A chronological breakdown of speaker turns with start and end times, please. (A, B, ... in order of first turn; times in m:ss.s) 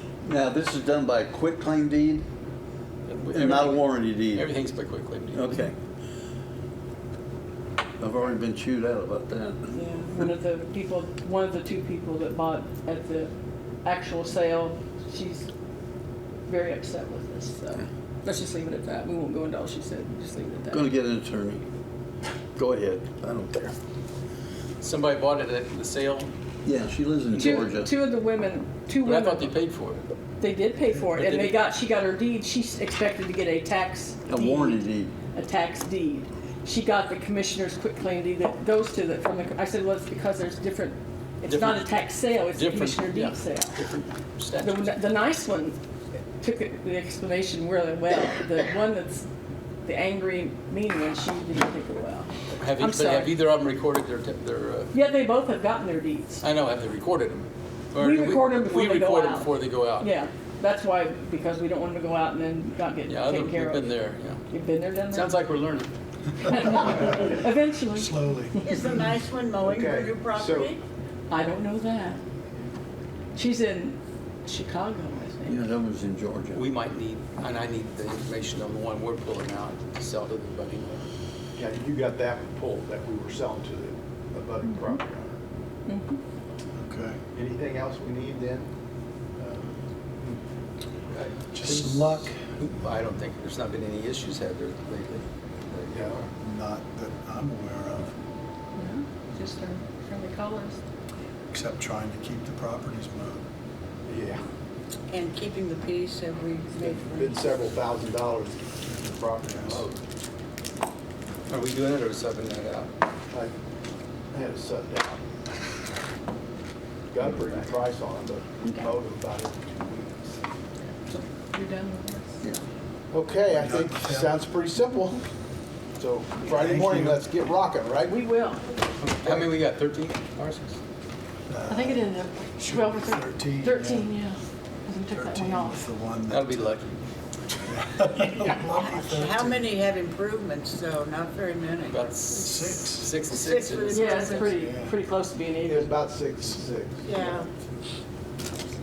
0:00.2-0:02.3 A
0:03.1-0:05.7 B
0:03.3-0:04.6 A
0:05.3-0:05.8 A
0:08.0-0:09.7 A
0:09.7-0:13.3 C
0:13.8-0:15.5 C
0:16.5-0:20.9 C
0:20.7-0:21.7 A
0:22.6-0:23.8 A
0:24.8-0:26.3 B
0:26.6-0:27.9 A
0:27.3-0:29.6 C
0:29.0-0:30.1 B
0:30.4-0:43.8 C
0:31.0-0:31.6 B
0:34.3-0:35.1 A
0:41.5-0:45.0 B
0:44.6-0:45.8 C
0:46.4-0:49.3 C
0:49.8-0:53.4 C
0:52.6-0:55.0 B
0:54.9-0:56.4 C
0:56.4-1:00.1 B
0:58.0-1:03.9 C
1:03.1-1:04.4 B
1:04.5-1:05.4 C
1:05.1-1:05.9 B
1:06.4-1:08.9 C
1:06.9-1:09.0 D
1:08.6-1:10.8 E
1:09.6-1:10.8 F
1:11.3-1:12.2 C
1:13.4-1:15.7 C
1:15.5-1:16.6 A
1:16.5-1:21.1 B
1:21.6-1:25.4 F
1:24.6-1:25.0 C
1:25.9-1:26.2 C
1:26.8-1:27.2 D
1:27.3-1:28.7 F
1:29.4-1:30.4 F
1:31.1-1:36.3 B
1:31.5-1:32.4 D
1:35.9-1:36.3 F
1:36.4-1:38.2 D
1:38.8-1:40.8 C
1:41.5-1:43.4 D
1:44.0-1:44.4 F
1:45.1-1:47.8 E
1:46.8-1:50.0 F
1:49.4-1:49.8 D
1:51.5-1:52.9 B
1:54.3-1:55.2 F
1:57.1-2:00.4 F
1:58.6-1:58.9 C
2:01.1-2:02.4 C
2:03.1-2:05.2 F
2:03.5-2:04.4 D
2:06.0-2:08.2 F
2:06.5-2:07.3 D
2:08.1-2:08.7 C
2:09.0-2:10.8 B
2:11.5-2:14.2 D
2:11.7-2:15.8 C
2:15.1-2:16.8 D
2:16.3-2:17.0 B
2:17.6-2:19.7 D
2:18.7-2:22.2 E
2:21.9-2:24.4 B
2:22.3-2:23.2 D
2:23.2-2:24.6 E
2:23.9-2:26.0 C
2:24.5-2:25.0 D
2:25.6-2:27.4 F
2:27.0-2:27.5 E